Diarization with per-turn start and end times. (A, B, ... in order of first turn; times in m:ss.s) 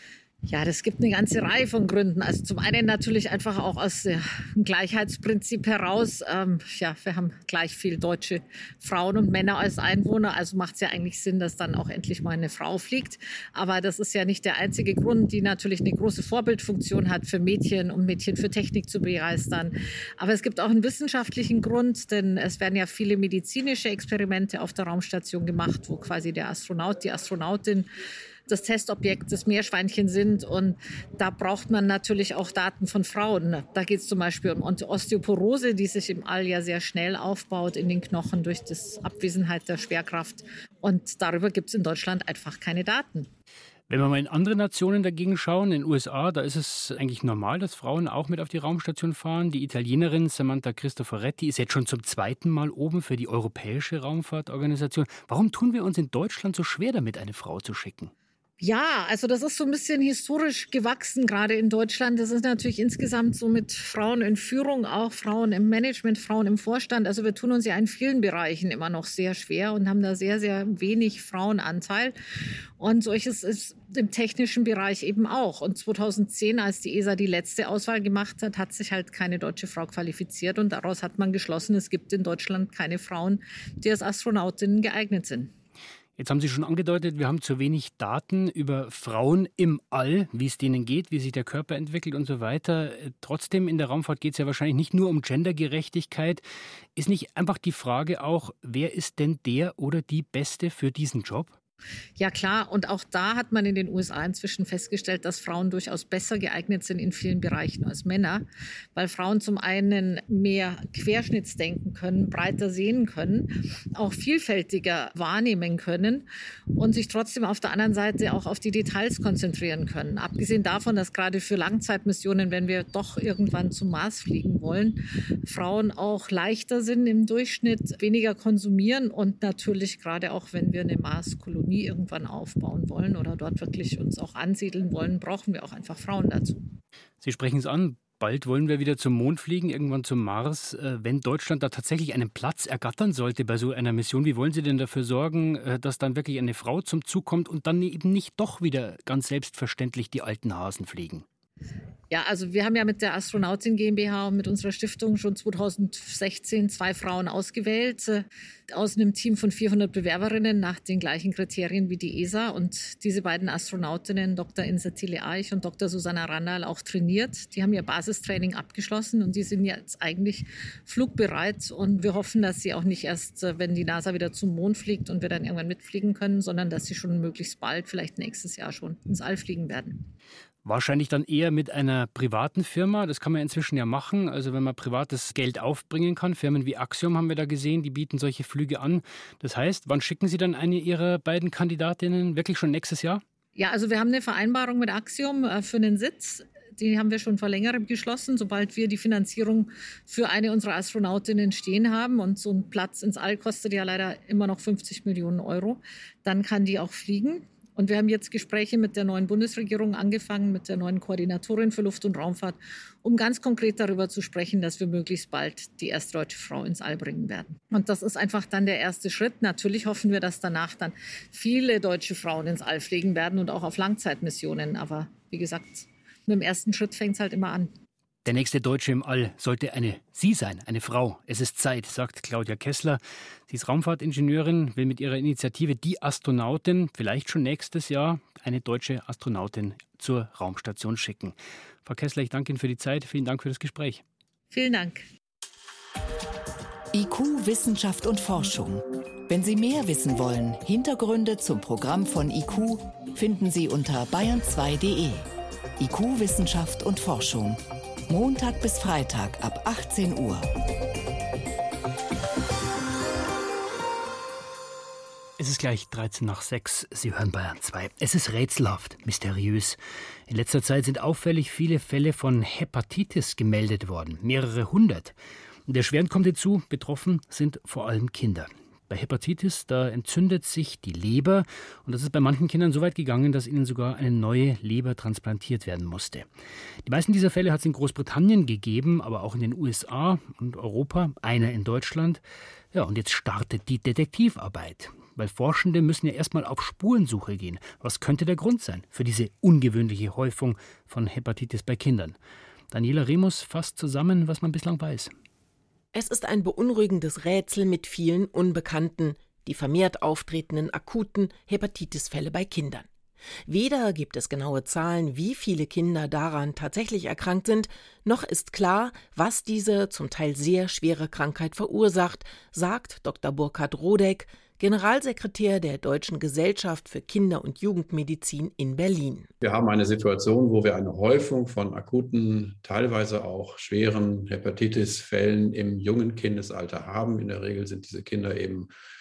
0:00.5-0:27.9 A
0:28.5-0:43.3 A
0:43.9-0:58.1 B
0:58.6-1:12.2 A
1:12.8-1:25.5 A
1:26.2-1:36.4 B
1:37.0-1:41.6 B
1:42.2-2:16.6 A
2:17.2-2:31.2 B
2:32.1-3:00.1 A
3:00.6-3:13.2 B
3:13.6-3:47.7 A
3:48.2-4:04.0 B
4:04.5-4:05.0 A
4:06.9-4:15.3 C
4:15.8-4:20.5 C
4:25.4-4:35.2 B
4:35.7-4:46.3 B
4:46.8-4:52.2 B
4:52.7-5:02.2 B
5:02.7-5:05.1 B
5:05.9-5:12.9 D
5:13.5-5:29.3 D
5:29.4-5:38.7 E